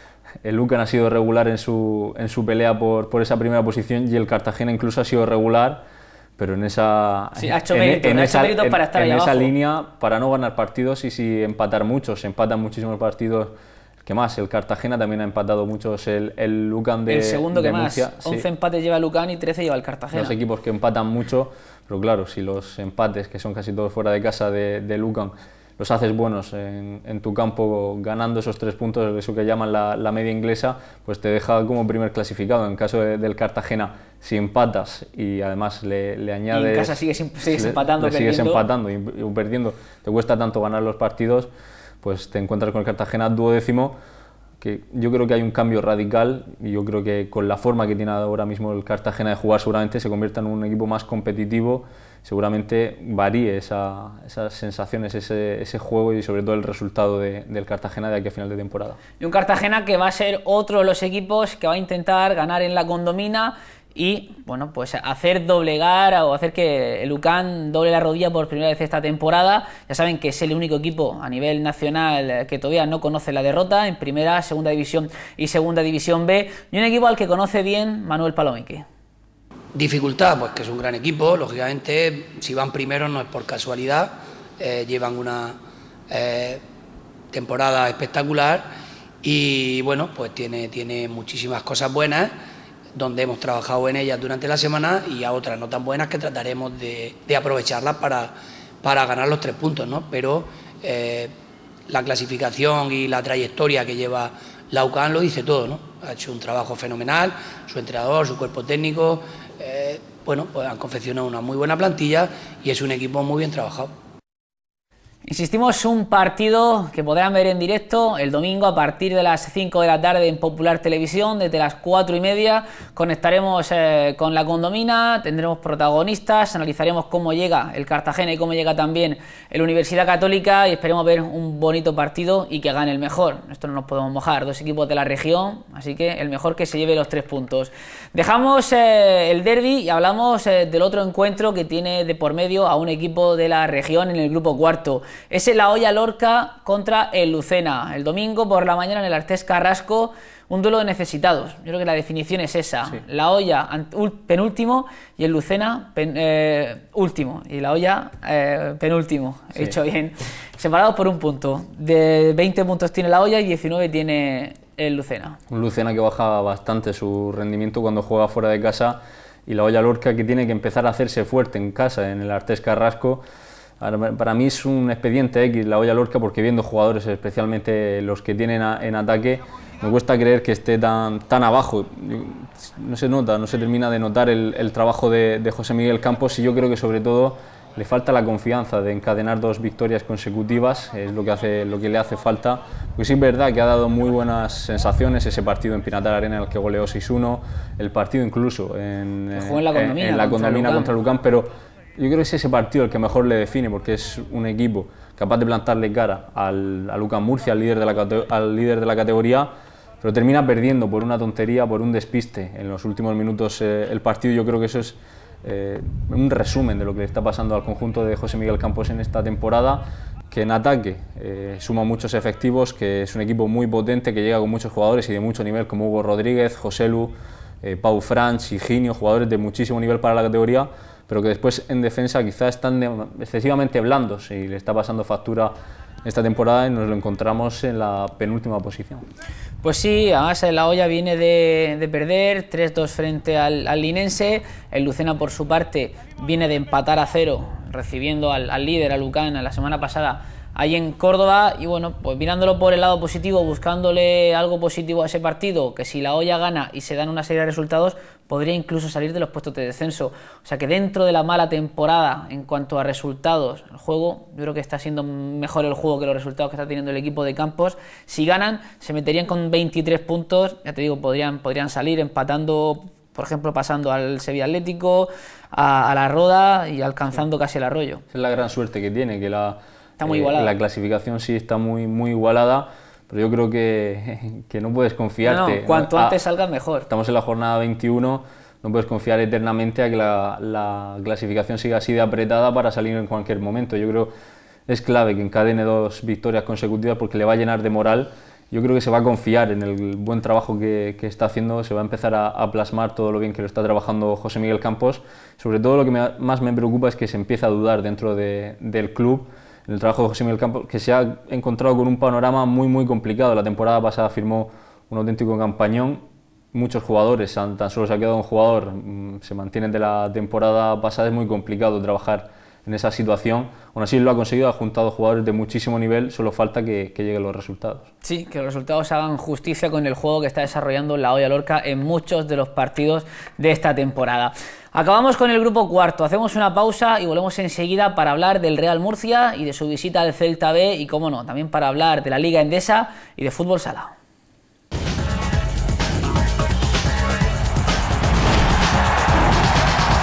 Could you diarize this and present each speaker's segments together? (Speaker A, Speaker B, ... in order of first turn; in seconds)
Speaker A: 0.4-5.8, 6.4-18.4, 20.1-41.5, 42.0-44.0, 44.6-59.0, 165.5-173.2, 173.8-209.5, 210.0-239.1, 278.1-286.2, 286.9-294.1, 294.7-327.9
Speaker B: 7.4-9.5, 17.1-20.3, 36.5-38.6, 59.2-78.8, 115.2-165.4, 199.3-200.9, 239.6-278.0, 280.0-280.5, 285.2-286.9, 328.0-343.9
Speaker C: 79.7-85.6, 86.1-86.6, 87.3-88.7, 89.2-92.3, 92.9-101.3, 101.9-113.9